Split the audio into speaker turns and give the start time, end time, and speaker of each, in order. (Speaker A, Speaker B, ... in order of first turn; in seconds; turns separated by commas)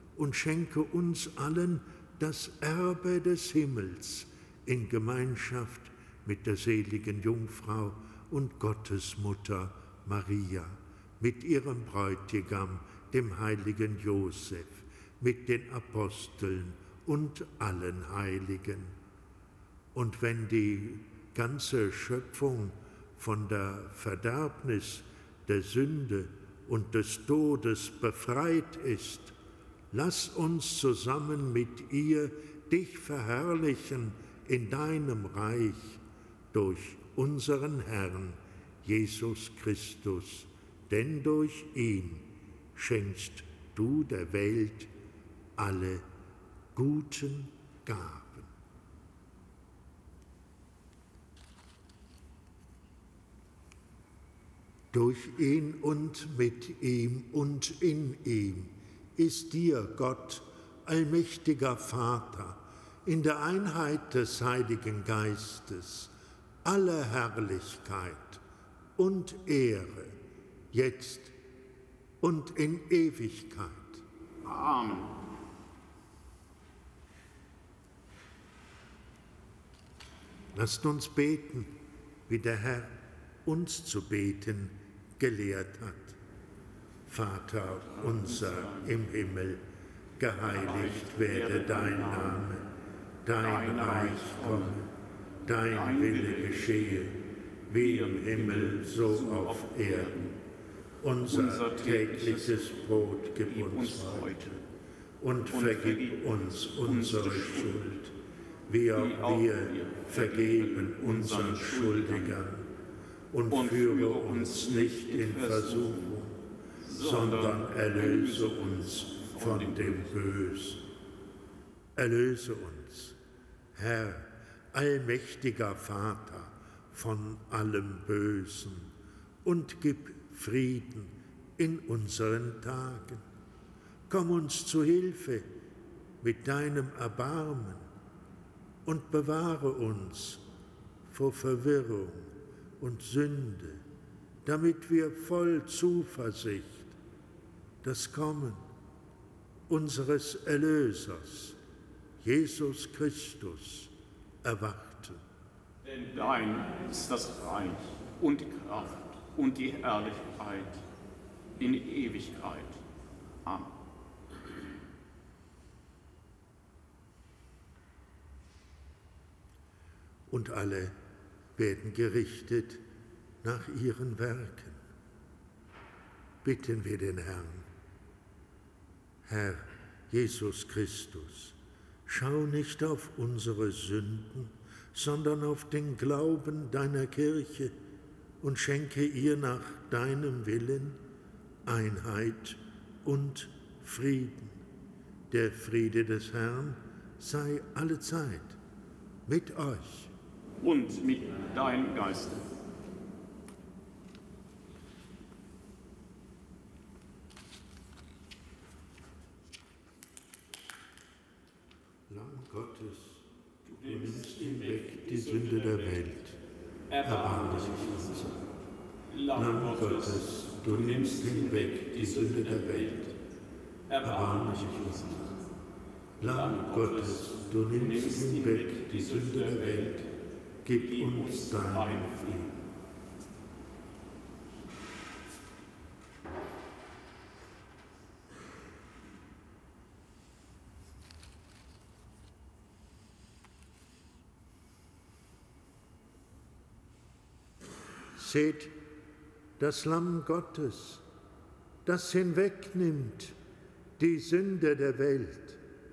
Speaker A: 0.1-18.9, Speaker A: 19.9-29.3, Speaker A: 29.9-44.9, Speaker A: 45.5-46.0, Speaker A: 46.7-48.5, Speaker A: 54.9-66.1, Speaker A: 66.6-68.4, Speaker A: 69.0-70.2, Speaker A: 70.7-71.3, Speaker A: 72.2-74.0, Speaker B: 74.4-75.2, Speaker A: 80.5-81.8, Speaker A: 82.3-86.2, Speaker A: 87.1-89.6, Speaker B: 88.0-89.0, Speaker A: 90.2-92.7, Speaker B: 90.4-92.5, Speaker A: 93.2-94.9, Speaker B: 93.4-94.8, Speaker A: 95.4-100.3, Speaker B: 95.7-97.0, Speaker B: 97.7-100.4, Speaker A: 101.0-104.6, Speaker B: 101.2-102.8, Speaker B: 103.4-104.5, Speaker A: 105.2-108.1, Speaker B: 105.5-108.0, Speaker A: 108.7-112.7, Speaker B: 108.9-112.4, Speaker A: 113.3-116.4, Speaker B: 113.5-116.2, Speaker B: 116.8-120.2, Speaker A: 116.9-120.9, Speaker A: 122.0-123.2, Speaker A: 123.7-128.9, Speaker A: 129.4-133.2, Speaker A: 134.1-135.5, Speaker A: 136.2-137.9, Speaker A: 138.8-140.4, Speaker A: 141.1-143.8, Speaker A: 144.4-146.9, Speaker A: 147.8-148.6, Speaker A: 149.7-151.6, Speaker A: 152.2-155.2, Speaker B: 155.8-160.8, Speaker B: 161.6-162.8, Speaker B: 163.4-163.7, Speaker A: 170.3-170.9, Speaker A: 171.6-172.8, Speaker A: 173.4-174.8, Speaker A: 176.4-177.7, Speaker A: 179.2-187.7, Speaker A: 188.4-191.0, Speaker A: 191.6-194.6, Speaker A: 195.3-198.6, Speaker A: 199.2-200.1, Speaker B: 200.6-202.5, Speaker A: 212.1-213.3, Speaker B: 213.7-216.1, Speaker A: 213.8-216.4, Speaker B: 216.9-218.4, Speaker A: 217.0-218.5, Speaker B: 219.1-223.1, Speaker A: 219.3-223.1, Speaker B: 223.9-225.4, Speaker A: 224.0-225.2, Speaker A: 226.2-230.1, Speaker B: 226.2-230.1, Speaker A: 230.6-232.5, Speaker B: 230.7-232.6, Speaker A: 248.1-248.8, Speaker A: 249.6-251.0, Speaker A: 251.8-253.3, Speaker A: 254.0-255.6